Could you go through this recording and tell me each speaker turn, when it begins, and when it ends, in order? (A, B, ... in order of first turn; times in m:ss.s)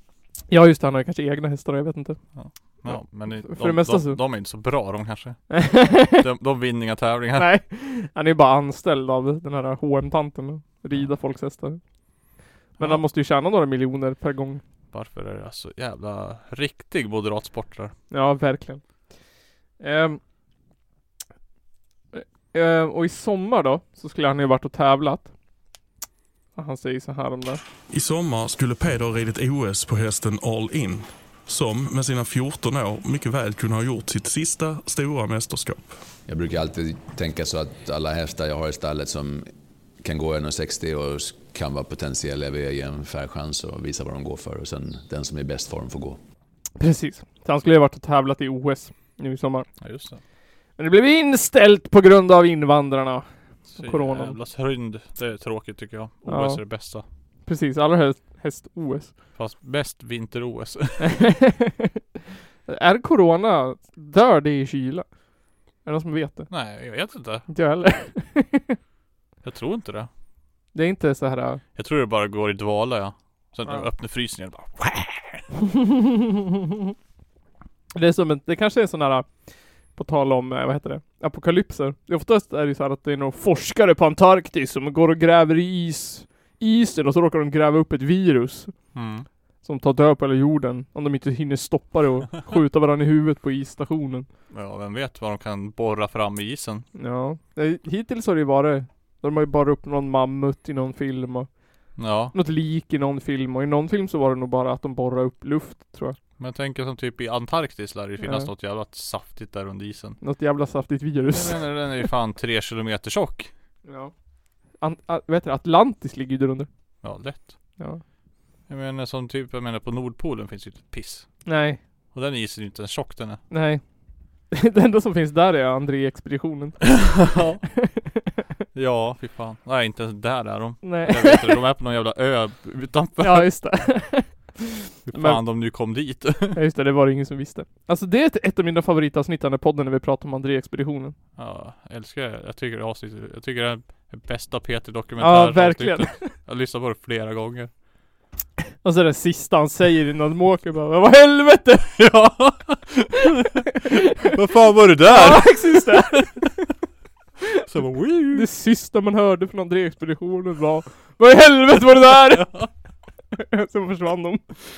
0:00.5-0:02.2 A
0:02.3-0:07.5 B
0:02.8-0:04.2 A
0:05.5-0:06.2 A
0:07.4-0:11.8 A
0:12.8-0:14.6 A
0:14.9-0:17.9 B
0:18.1-0:18.8 A
0:19.8-0:20.2 A
0:22.1-0:25.3 A
0:26.6-0:27.6 A
0:27.9-0:35.9 C
0:36.3-0:39.5 D
0:40.0-0:46.2 D
0:46.8-0:49.7 A
0:49.8-0:50.2 B
0:50.8-0:54.4 A
0:53.7-0:57.0 B
0:56.3-0:56.6 A
0:57.4-0:59.1 A
0:59.3-1:01.1 B
1:01.0-1:01.9 A
1:02.6-1:05.1 A
1:05.8-1:06.5 A
1:06.5-1:07.5 B
1:07.5-1:08.8 A
1:09.4-1:10.1 B
1:10.7-1:11.6 A
1:11.8-1:15.4 B
1:15.8-1:16.1 A
1:17.9-1:19.4 A
1:19.9-1:28.7 A
1:28.9-1:29.3 B
1:29.6-1:34.3 A
1:34.5-1:36.9 B
1:37.0-1:41.5 A
1:42.0-1:42.3 B
1:42.3-1:46.2 A
1:46.4-1:50.2 B
1:48.2-1:48.5 A
1:50.2-1:51.6 A
1:51.3-1:53.5 B
1:53.8-1:54.1 A
1:54.8-1:56.7 A
1:57.0-1:57.6 B
1:58.7-2:01.4 B
2:01.4-2:01.8 A
2:02.1-2:03.4 B
2:03.5-2:03.8 A
2:04.5-2:07.0 A
2:06.9-2:07.6 B
2:07.7-2:08.2 A
2:08.7-2:13.5 B
2:10.8-2:11.6 A
2:13.2-2:15.4 A
2:15.1-2:16.6 B
2:16.5-2:21.2 A
2:21.4-2:27.7 B
2:25.2-2:26.3 A
2:28.8-2:32.0 A
2:32.0-2:36.5 B
2:35.0-2:36.5 A
2:37.6-2:38.5 B
2:38.3-2:42.6 A
2:43.4-2:44.6 A